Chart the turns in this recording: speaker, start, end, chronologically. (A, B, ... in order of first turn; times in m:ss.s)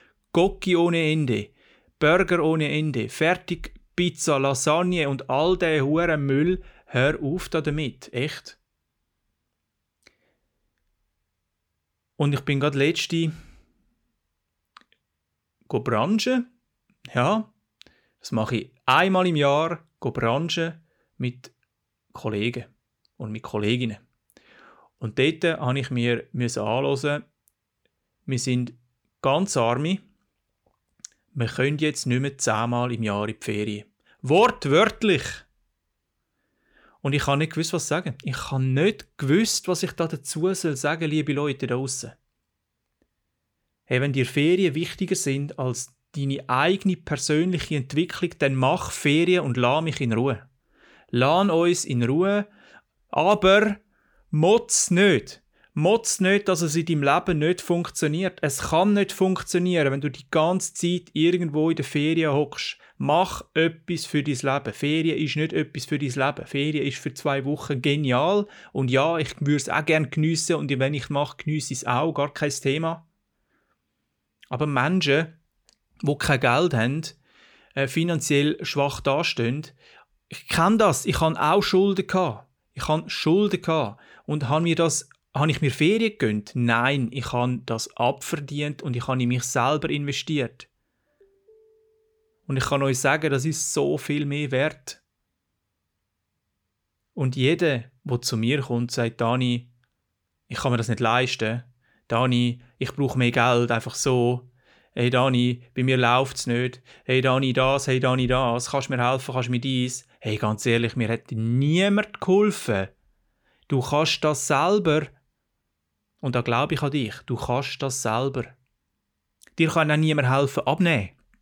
0:00.3-0:08.6 A
0:12.2-0:13.3 A
0:15.7-0:16.5 A
0:17.1-0:17.5 A
0:18.2-0:21.5 A
0:22.1-0:24.0 A
0:25.0-0:27.2 A
0:28.3-0:30.0 A
0:31.3-0:35.5 A
0:37.0-0:42.2 A
0:43.9-0:50.4 A
0:51.1-0:52.5 A
0:53.1-1:13.1 A
1:14.5-1:15.4 A
1:16.0-1:17.2 A
1:17.8-1:19.8 A
1:20.3-1:30.7 A
1:32.5-1:35.0 A
1:37.2-1:39.7 A
1:40.5-1:52.9 A
1:53.7-1:55.1 A
1:56.2-1:58.6 A
1:59.6-2:01.2 A